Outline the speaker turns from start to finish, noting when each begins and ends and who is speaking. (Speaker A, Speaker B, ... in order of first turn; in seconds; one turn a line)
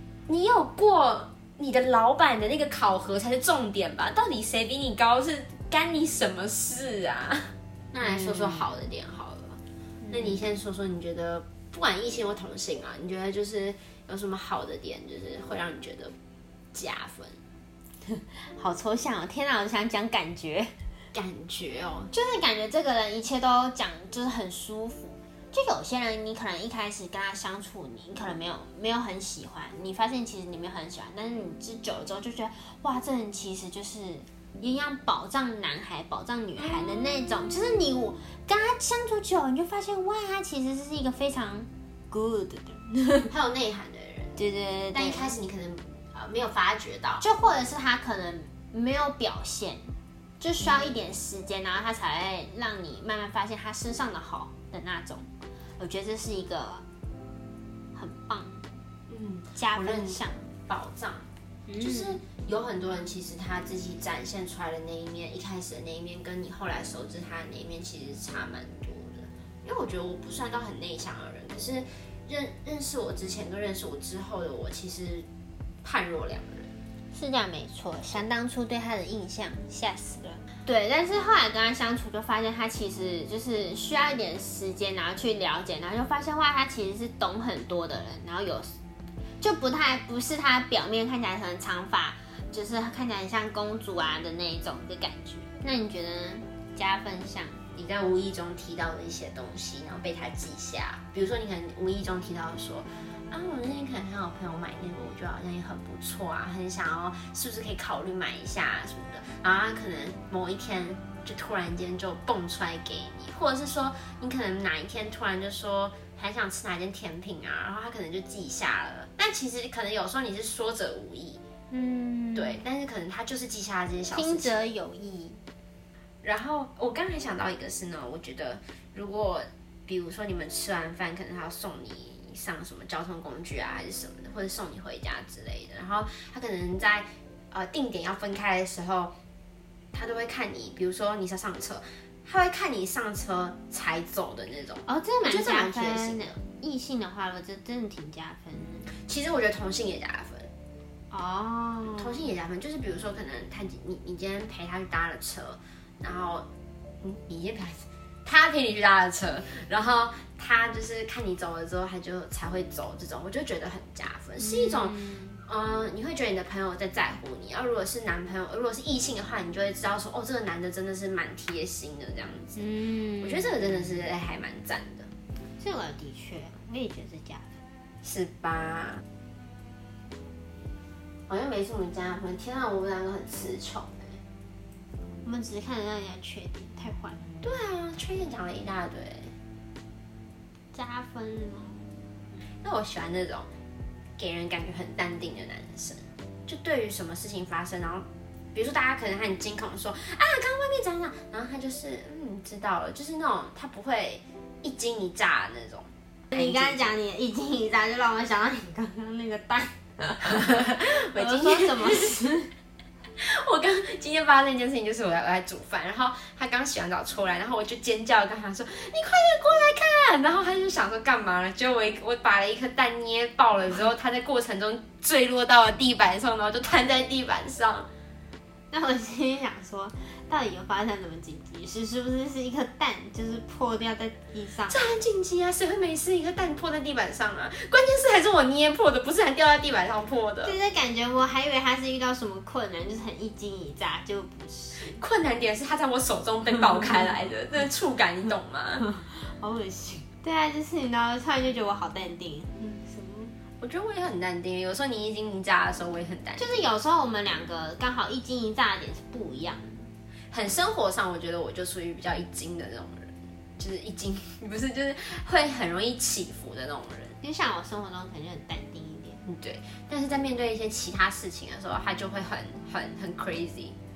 Speaker A: 0.3-16.1
Speaker B: 8.0-8.7
Speaker B: 10.0-10.4
Speaker A: 16.7-17.4
Speaker B: 18.1-20.7
Speaker A: 21.1-22.1
Speaker B: 22.1-43.3
Speaker A: 43.3-44.4
Speaker B: 44.4-45.4
Speaker A: 44.9-47.2
Speaker B: 47.2-56.9
Speaker A: 50.6-50.9
Speaker B: 57.9-58.7
Speaker A: 59.1-61.2
Speaker B: 59.5-60.5
Speaker B: 61.7-62.2
Speaker A: 61.8-75.3
Speaker A: 75.8-76.7
Speaker B: 77.1-88.7
Speaker B: 89.4-97.6
Speaker A: 97.7-121.4
Speaker B: 121.7-122.6
Speaker A: 122.3-124.7
Speaker B: 124.1-125.4
Speaker A: 126.2-139.1
Speaker A: 139.9-146.4
Speaker B: 144.9-148.9
Speaker A: 149.0-150.5
Speaker B: 151.1-152.3
Speaker A: 151.9-156.5
Speaker A: 157.0-172.6
Speaker B: 164.4-165.4
Speaker B: 172.6-173.5
Speaker A: 173.2-175.1
Speaker B: 175.6-177.5
Speaker A: 178.0-179.0
Speaker A: 181.3-184.2
Speaker B: 185.2-187.2
Speaker A: 187.4-189.3
Speaker B: 190.7-192.0
Speaker A: 192.6-193.5
Speaker A: 194.2-206.4
Speaker B: 206.3-212.5
Speaker A: 210.5-212.2
Speaker A: 213.2-227.9
Speaker B: 228.7-234.9
Speaker A: 234.7-240.6
Speaker B: 240.4-245.0
Speaker A: 244.8-248.8
Speaker B: 248.8-253.3
Speaker A: 253.6-256.6
Speaker B: 256.4-259.9
Speaker A: 260.3-267.2
Speaker B: 267.2-269.2
Speaker A: 269.2-273.8